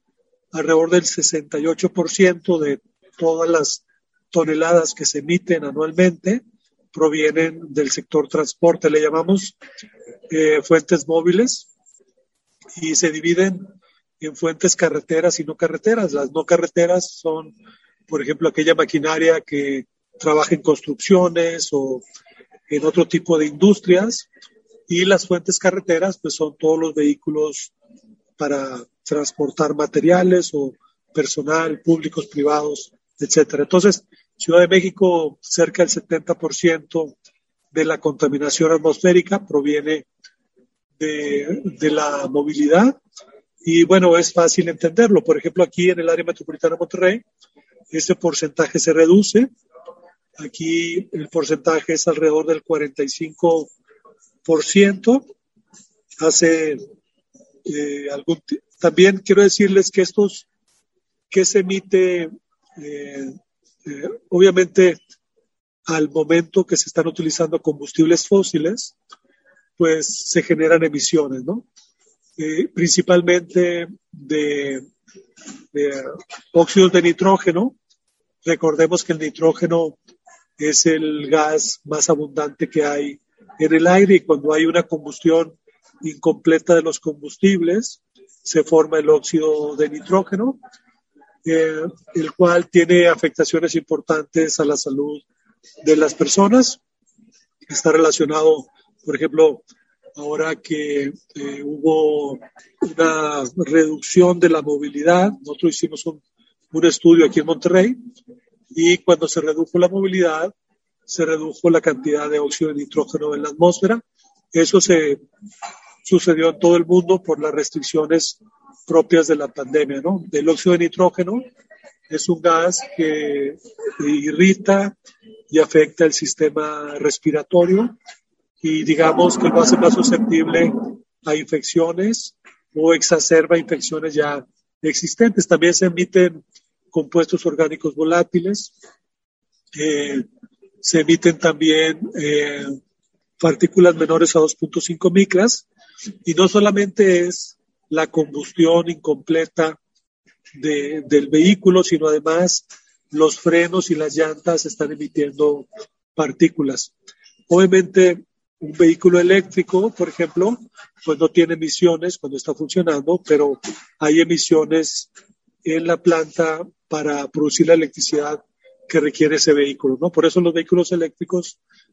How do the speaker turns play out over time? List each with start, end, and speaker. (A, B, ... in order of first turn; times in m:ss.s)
0:00.5-0:09.6 A
0:10.3-0:11.7 A
0:12.8-0:13.6 A
0:14.2-0:17.5 A
0:18.1-0:22.0 A
0:22.7-0:24.3 A
0:24.9-0:27.7 A
0:28.4-0:37.1 A
0:37.7-0:40.0 A
0:41.0-0:43.0 A
0:43.6-0:47.2 A
0:47.9-0:49.5 A
0:50.4-0:53.7 A
0:54.4-0:55.3 A
0:56.2-0:56.8 A
0:57.6-1:00.5 A
1:01.3-1:05.0 A
1:05.9-1:08.9 A
1:09.8-1:11.6 A
1:12.4-1:14.9 A
1:15.7-1:17.7 A
1:18.4-1:20.0 A
1:20.6-1:30.6 A
1:31.4-1:35.2 A
1:35.8-1:36.8 A
1:37.7-1:39.6 A
1:40.2-1:46.2 A
1:46.7-1:48.0 A
1:48.7-1:50.5 A
1:51.1-1:54.0 A
1:54.5-1:55.2 A
1:56.0-2:01.4 A
2:02.1-2:04.9 A
2:05.5-2:07.9 A
2:08.6-2:16.4 A
2:16.9-2:18.7 A
2:19.7-2:20.2 A
2:20.8-2:22.8 A
2:23.4-2:25.7 A
2:26.2-2:29.8 A
2:30.5-2:36.9 A
2:37.5-2:45.1 A
2:45.6-2:51.6 A